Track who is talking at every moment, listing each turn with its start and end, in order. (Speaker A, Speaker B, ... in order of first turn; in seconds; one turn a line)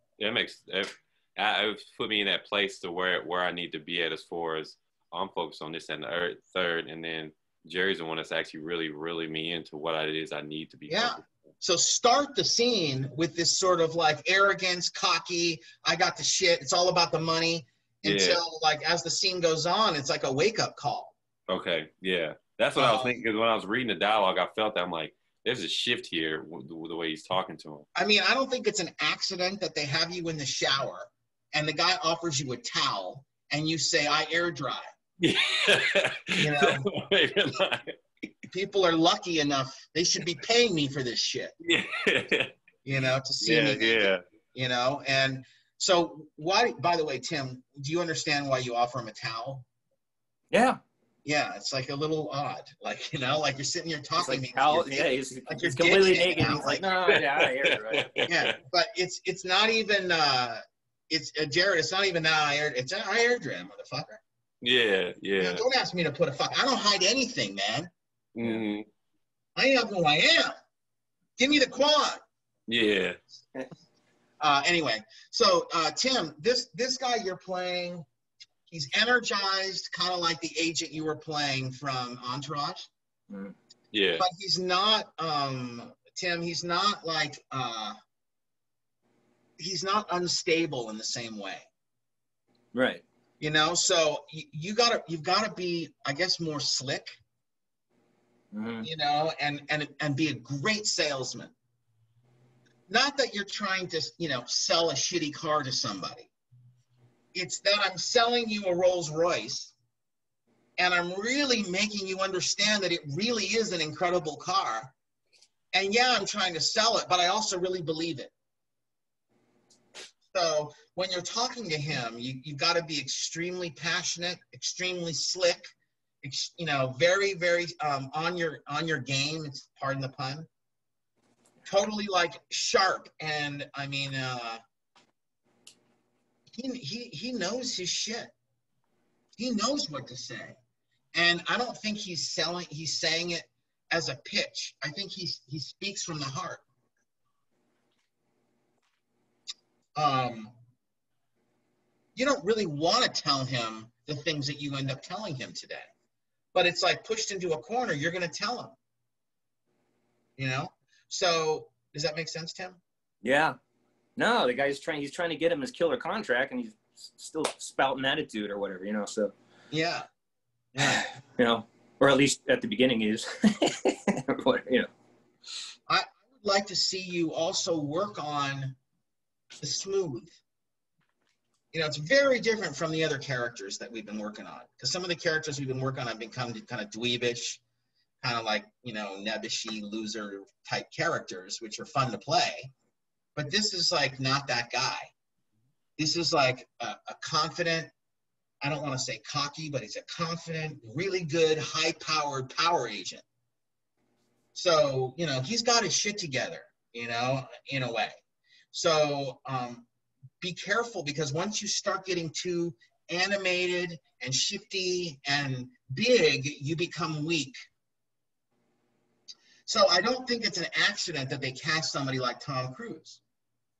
Speaker A: 0.2-11.3
Speaker B: 10.9-21.1
Speaker A: 18.0-18.4
Speaker A: 21.5-27.9
Speaker B: 22.8-23.2
Speaker B: 27.9-34.9
Speaker A: 35.2-37.9
Speaker B: 36.3-36.9
Speaker B: 38.5-41.5
Speaker A: 41.6-42.5
Speaker B: 42.8-49.6
Speaker A: 43.4-44.2
Speaker C: 50.5-50.8
Speaker B: 51.2-56.9
Speaker C: 54.2-58.1
Speaker A: 57.1-57.5
Speaker A: 58.0-58.5
Speaker B: 58.3-64.2
Speaker A: 64.6-65.6
Speaker B: 65.4-67.9
Speaker A: 68.3-68.8
Speaker B: 69.5-70.5
Speaker B: 71.4-72.2
Speaker A: 72.7-73.2
Speaker B: 74.4-78.0
Speaker B: 78.7-82.9
Speaker C: 83.3-83.5
Speaker A: 83.9-84.2
Speaker B: 84.2-88.0
Speaker B: 89.6-91.7
Speaker C: 92.7-93.0
Speaker B: 93.4-97.2
Speaker C: 98.5-98.9
Speaker B: 98.8-101.5
Speaker B: 102.9-106.3
Speaker B: 107.3-109.7
Speaker B: 110.8-114.9
Speaker B: 115.7-118.3
Speaker B: 120.3-130.5
Speaker B: 131.7-134.6
Speaker B: 136.5-138.3
Speaker B: 139.4-140.6
Speaker B: 141.1-146.6
Speaker B: 149.9-150.5
Speaker B: 152.2-155.9
Speaker B: 156.5-158.8
Speaker B: 160.4-162.8
Speaker C: 163.2-163.6
Speaker C: 164.2-169.3
Speaker B: 169.7-170.1
Speaker B: 170.7-171.1
Speaker C: 170.8-174.9
Speaker B: 175.9-178.8
Speaker B: 179.6-180.3
Speaker B: 181.7-187.6
Speaker B: 188.2-192.7
Speaker B: 193.3-195.1
Speaker B: 196.0-197.9
Speaker B: 198.6-203.2
Speaker B: 204.5-208.2
Speaker B: 208.7-209.8
Speaker B: 210.4-217.6
Speaker B: 219.7-223.2